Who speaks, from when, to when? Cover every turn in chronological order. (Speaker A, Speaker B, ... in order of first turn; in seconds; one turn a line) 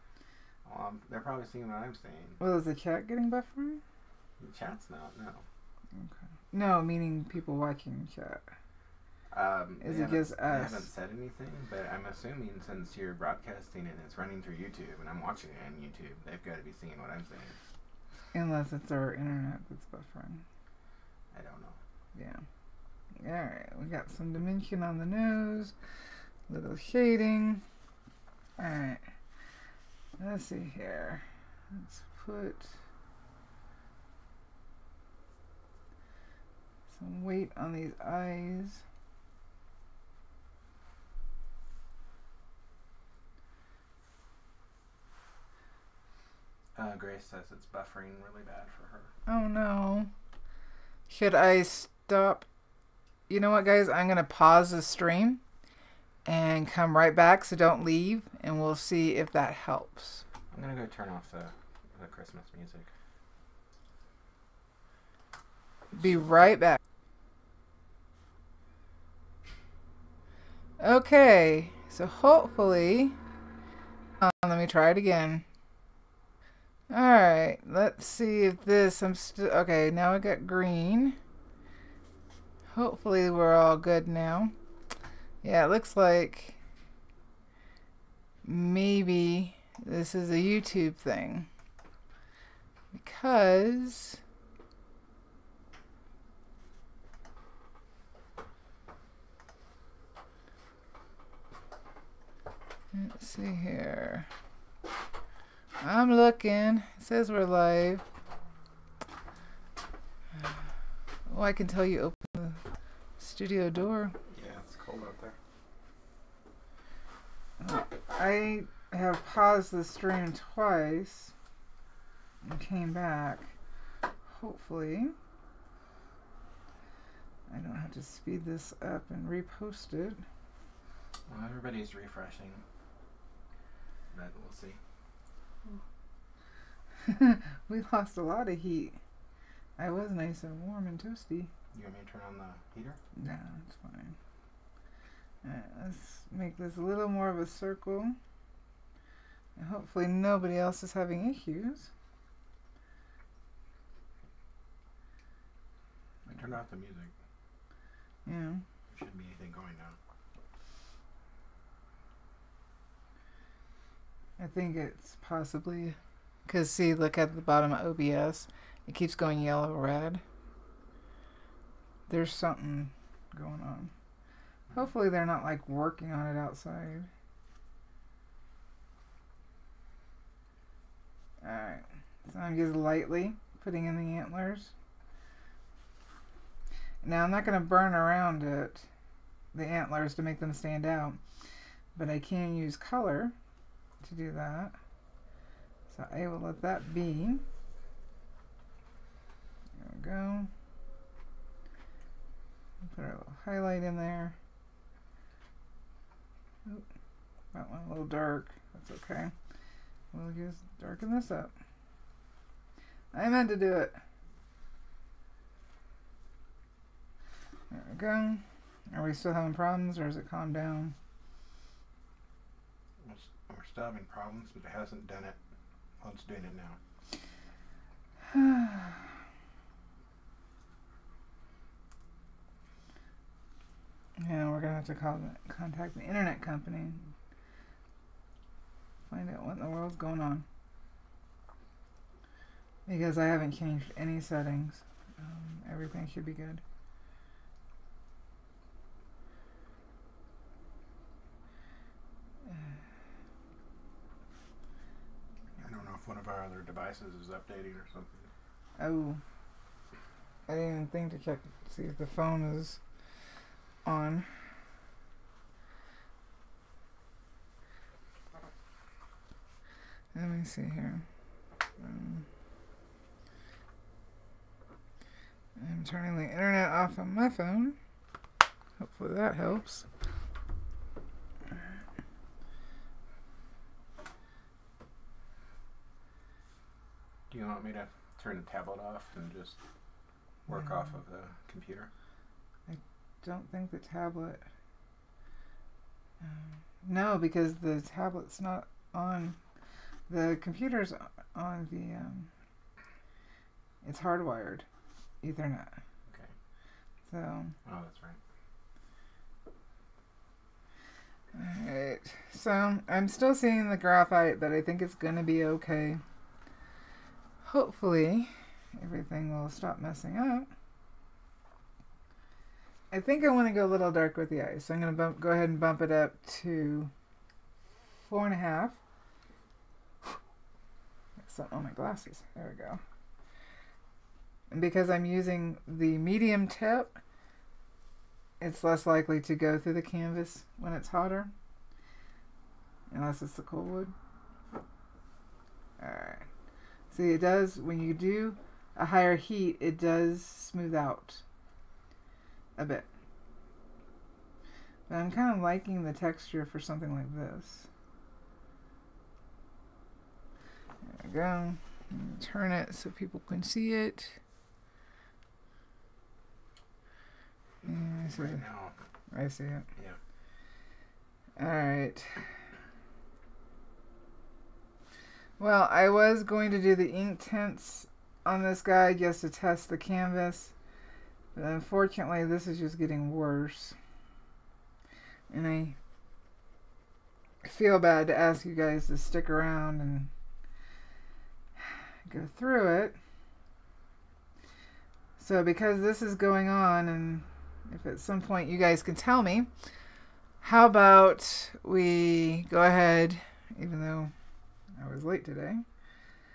Speaker A: 0.7-2.4
Speaker B: 2.4-3.8
Speaker A: 4.4-5.5
Speaker B: 6.0-8.4
Speaker A: 9.3-17.6
Speaker B: 9.8-10.9
Speaker B: 18.3-20.4
Speaker A: 21.3-21.8
Speaker B: 22.1-22.4
Speaker B: 23.2-25.7
Speaker B: 26.5-27.6
Speaker B: 28.6-29.0
Speaker B: 30.2-32.7
Speaker B: 36.9-38.8
Speaker A: 46.8-49.1
Speaker B: 49.3-50.1
Speaker B: 51.1-52.5
Speaker B: 53.3-55.4
Speaker B: 56.3-60.2
Speaker A: 60.5-62.9
Speaker B: 66.0-66.8
Speaker B: 70.8-73.2
Speaker B: 74.2-75.4
Speaker B: 76.9-81.2
Speaker B: 82.7-84.5
Speaker B: 85.4-86.6
Speaker B: 88.4-91.5
Speaker B: 92.9-94.2
Speaker B: 102.9-104.3
Speaker B: 105.8-108.0
Speaker B: 111.3-112.6
Speaker B: 113.2-114.2
Speaker A: 114.3-115.4
Speaker B: 117.6-121.3
Speaker B: 122.4-123.5
Speaker B: 124.3-125.2
Speaker B: 127.5-130.2
Speaker A: 131.3-132.6
Speaker A: 134.1-134.8
Speaker B: 137.1-139.0
Speaker B: 139.8-141.5
Speaker A: 141.7-143.0
Speaker B: 143.2-144.2
Speaker B: 145.4-148.2
Speaker B: 149.6-151.9
Speaker A: 156.3-157.2
Speaker B: 158.3-158.6
Speaker A: 158.9-160.0
Speaker B: 164.4-170.2
Speaker B: 172.1-173.9
Speaker B: 174.7-177.1
Speaker B: 181.4-184.7
Speaker B: 187.0-188.9
Speaker B: 189.5-191.2
Speaker B: 192.0-193.3
Speaker B: 194.0-194.8
Speaker B: 195.9-197.4
Speaker B: 199.8-200.5
Speaker B: 202.8-204.4
Speaker B: 207.5-209.3
Speaker B: 210.1-211.5
Speaker B: 213.1-214.0
Speaker B: 217.7-220.9
Speaker A: 223.0-225.4
Speaker A: 226.0-226.8
Speaker B: 228.3-229.0
Speaker B: 234.2-237.1
Speaker B: 239.1-240.5
Speaker B: 242.9-246.6
Speaker A: 255.6-258.3
Speaker B: 258.8-259.2
Speaker B: 260.5-262.8
Speaker B: 263.9-264.3
Speaker B: 270.1-271.1
Speaker B: 271.8-272.2
Speaker B: 275.6-277.8
Speaker B: 278.8-279.9
Speaker A: 287.3-289.6
Speaker A: 290.5-291.9
Speaker B: 292.7-294.4
Speaker B: 296.2-299.4
Speaker B: 300.1-302.3
Speaker B: 303.8-304.6
Speaker B: 305.2-305.8
Speaker B: 307.1-307.5
Speaker A: 307.7-308.2
Speaker B: 311.3-316.0
Speaker B: 317.5-320.5
Speaker B: 322.9-326.9
Speaker B: 328.1-328.8
Speaker B: 331.2-332.8
Speaker B: 334.5-337.0
Speaker B: 338.4-341.3
Speaker B: 342.9-343.9
Speaker B: 345.8-346.2
Speaker B: 346.9-351.2
Speaker B: 352.6-352.9
Speaker B: 354.9-357.7
Speaker B: 360.9-364.2
Speaker A: 367.6-368.8
Speaker B: 367.7-368.4
Speaker B: 369.1-369.7
Speaker B: 371.4-372.2
Speaker B: 375.4-380.5
Speaker B: 381.4-383.8
Speaker B: 385.3-385.8
Speaker B: 387.4-390.1
Speaker B: 391.6-393.0
Speaker B: 395.2-399.5
Speaker B: 400.4-404.1
Speaker B: 404.8-405.6